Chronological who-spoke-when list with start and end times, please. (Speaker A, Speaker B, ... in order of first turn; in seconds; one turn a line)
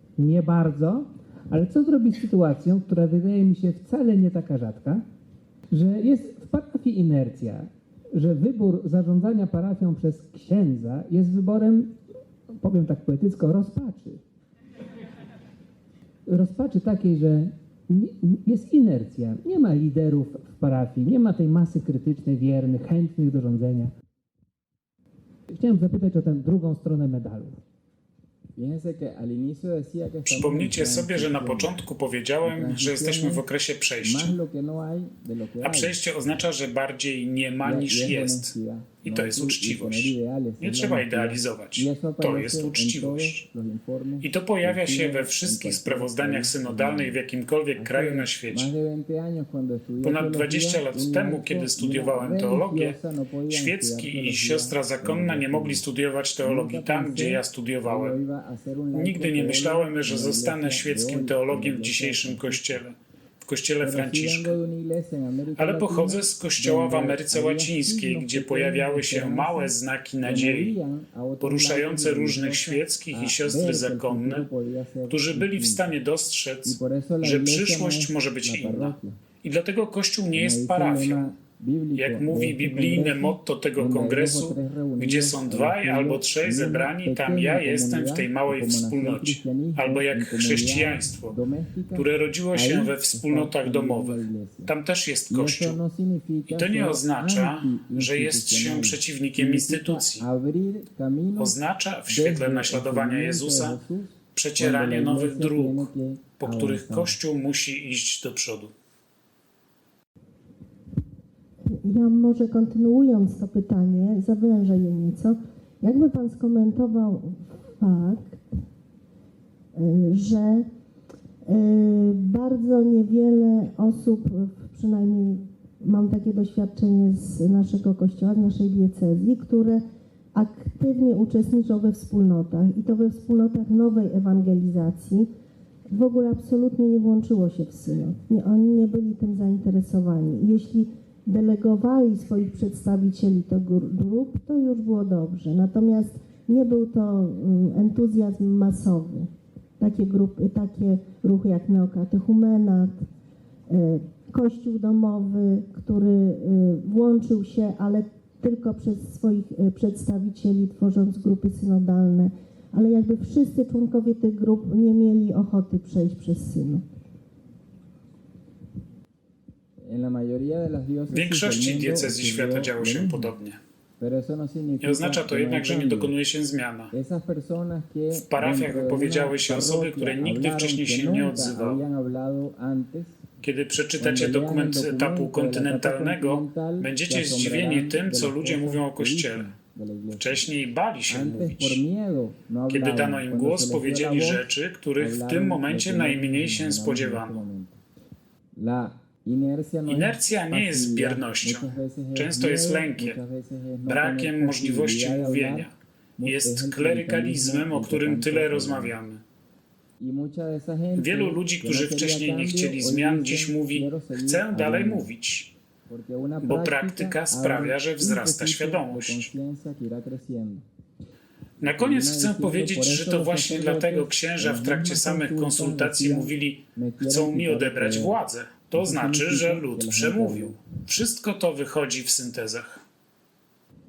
Speaker A: 0.1-5.0
Speaker A: 5.7-11.9
Speaker A: 12.5-14.2
Speaker A: 16.2-23.9
Speaker A: 25.5-27.6
Speaker B: 28.6-31.7
Speaker C: 30.3-34.3
Speaker B: 32.4-33.4
Speaker B: 34.0-36.0
Speaker C: 35.6-38.5
Speaker B: 37.6-47.2
Speaker C: 39.0-43.4
Speaker C: 44.2-48.7
Speaker B: 47.8-55.8
Speaker C: 50.0-52.9
Speaker C: 53.5-58.1
Speaker B: 56.4-62.8
Speaker C: 58.9-64.5
Speaker B: 63.8-75.9
Speaker C: 65.6-70.7
Speaker C: 71.4-74.5
Speaker C: 75.1-81.3
Speaker B: 76.6-79.2
Speaker B: 80.3-94.7
Speaker C: 82.0-91.3
Speaker C: 91.9-95.8
Speaker B: 95.3-101.6
Speaker C: 96.5-100.2
Speaker C: 101.4-103.8
Speaker B: 102.1-107.1
Speaker C: 104.3-108.7
Speaker D: 111.7-118.4
Speaker D: 119.7-120.6
Speaker D: 121.5-129.8
Speaker D: 130.3-135.3
Speaker D: 135.9-149.3
Speaker D: 149.8-153.1
Speaker D: 153.7-166.8
Speaker B: 169.8-173.3
Speaker C: 171.1-173.6
Speaker B: 174.0-176.1
Speaker C: 174.8-176.9
Speaker B: 176.9-183.2
Speaker C: 178.1-181.8
Speaker C: 183.4-189.5
Speaker B: 184.0-190.4
Speaker C: 190.2-191.8
Speaker B: 191.1-194.4
Speaker C: 192.7-197.4
Speaker B: 195.0-197.8
Speaker B: 198.6-208.9
Speaker C: 199.9-203.2
Speaker C: 203.9-205.7
Speaker C: 206.2-209.2
Speaker B: 210.0-215.1
Speaker C: 211.0-215.5
Speaker B: 215.9-220.7
Speaker C: 216.4-219.3
Speaker C: 221.6-232.8
Speaker B: 221.6-228.2
Speaker B: 228.7-230.6